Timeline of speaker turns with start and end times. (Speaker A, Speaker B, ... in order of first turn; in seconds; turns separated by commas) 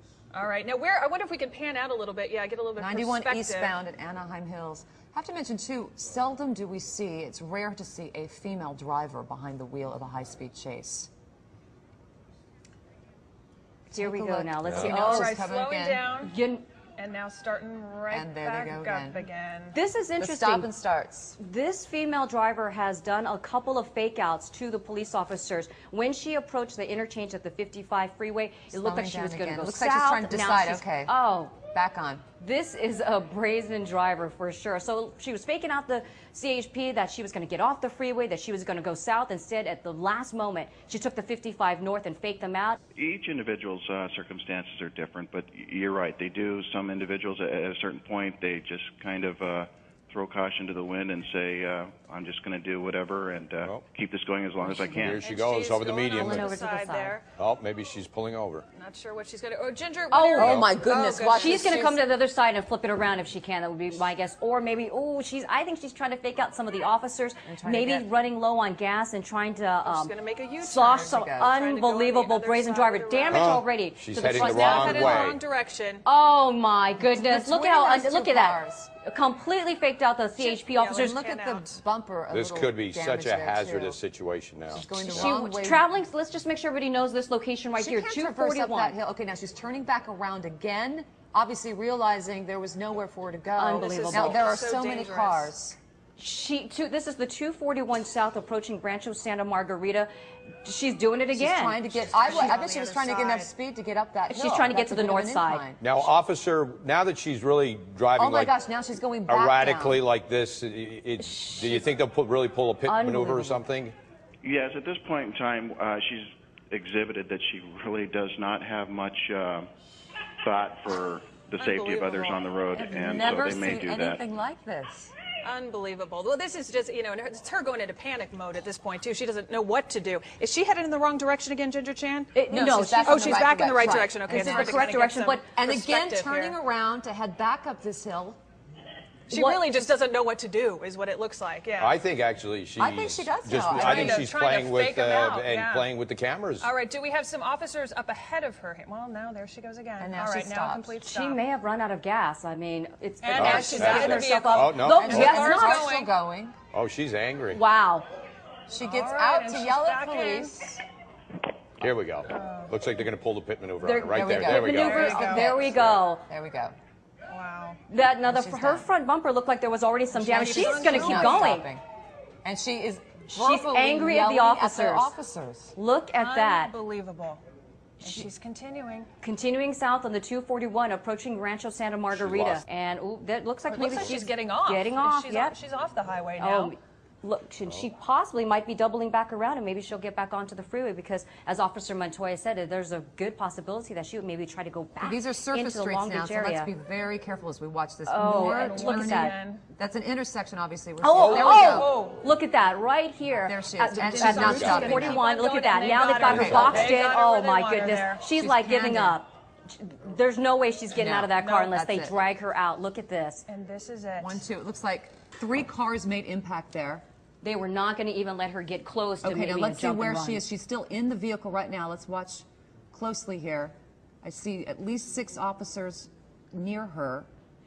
Speaker A: 0.3-3.7, Speaker B: 2.8-11.1, Speaker C: 13.9-15.4, Speaker B: 13.9-16.1, Speaker A: 14.9-16.3, Speaker C: 16.2-16.6, Speaker A: 17.0-19.8, Speaker B: 18.1-19.3, Speaker C: 19.7-20.7, Speaker B: 20.2-21.4, Speaker C: 21.4-31.6, Speaker B: 28.7-31.1, Speaker B: 31.7-32.2, Speaker C: 32.4-42.8, Speaker D: 42.9-55.2, Speaker E: 54.9-56.5, Speaker A: 55.0-57.3, Speaker C: 56.1-57.2, Speaker E: 57.4-58.6, Speaker A: 58.8-62.0, Speaker B: 60.1-62.0, Speaker C: 60.4-60.6, Speaker C: 61.3-75.4, Speaker B: 67.5-68.1, Speaker A: 69.8-73.6, Speaker B: 70.7-71.5, Speaker E: 73.3-75.4, Speaker A: 74.2-76.0, Speaker C: 76.0-81.2, Speaker B: 77.0-78.9, Speaker A: 80.4-81.7, Speaker B: 81.0-84.0, Speaker E: 82.3-85.3, Speaker B: 84.7-85.9, Speaker C: 85.0-89.0, Speaker B: 87.8-95.8, Speaker C: 93.6-94.5, Speaker A: 93.8-95.5, Speaker C: 96.2-100.1, Speaker C: 100.6-102.6, Speaker B: 101.3-105.8, Speaker A: 102.0-103.5, Speaker C: 104.3-105.7, Speaker E: 105.8-108.5, Speaker B: 108.2-110.0, Speaker E: 109.3-114.0, Speaker C: 111.2-111.8, Speaker C: 112.8-113.6, Speaker D: 114.4-119.7, Speaker D: 120.4-124.2, Speaker A: 121.6-122.5, Speaker B: 122.8-125.1, Speaker A: 123.2-123.4, Speaker A: 125.4-132.4, Speaker C: 132.3-135.5, Speaker B: 132.5-134.9, Speaker A: 133.0-136.6, Speaker B: 135.6-138.4, Speaker A: 139.3-142.0, Speaker C: 139.3-139.8, Speaker E: 141.8-146.7, Speaker B: 142.8-144.3, Speaker A: 143.7-145.9, Speaker A: 146.6-151.4, Speaker B: 150.0-151.0, Speaker C: 151.0-155.9, Speaker A: 153.2-156.1, Speaker E: 153.3-155.2, Speaker B: 155.0-156.6, Speaker E: 156.7-157.6, Speaker C: 157.5-158.1, Speaker B: 158.7-160.8, Speaker A: 158.8-160.6, Speaker E: 161.8-165.1, Speaker A: 162.3-162.7, Speaker C: 163.8-166.2, Speaker B: 164.1-166.8, Speaker A: 164.7-165.6, Speaker A: 167.3-167.8, Speaker C: 167.9-171.7, Speaker B: 168.2-168.9, Speaker B: 170.2-171.8, Speaker A: 170.3-171.6, Speaker B: 172.4-175.8, Speaker C: 173.3-175.1, Speaker C: 175.8-176.7, Speaker A: 176.1-177.4, Speaker A: 178.0-179.1, Speaker C: 178.0-178.3, Speaker C: 179.2-185.6, Speaker E: 182.1-182.6, Speaker A: 183.7-186.7, Speaker C: 186.4-196.7, Speaker B: 195.0-202.0, Speaker C: 198.1-199.3, Speaker A: 198.3-199.6, Speaker C: 201.0-213.4, Speaker A: 201.2-202.2, Speaker B: 203.4-205.2, Speaker A: 204.0-208.3, Speaker E: 204.3-204.9, Speaker B: 206.2-206.8, Speaker E: 206.4-206.9, Speaker B: 208.3-209.2, Speaker A: 211.0-211.8, Speaker B: 211.7-212.2, Speaker A: 213.5-214.4, Speaker B: 214.2-217.0, Speaker C: 217.4-220.4, Speaker B: 219.2-227.3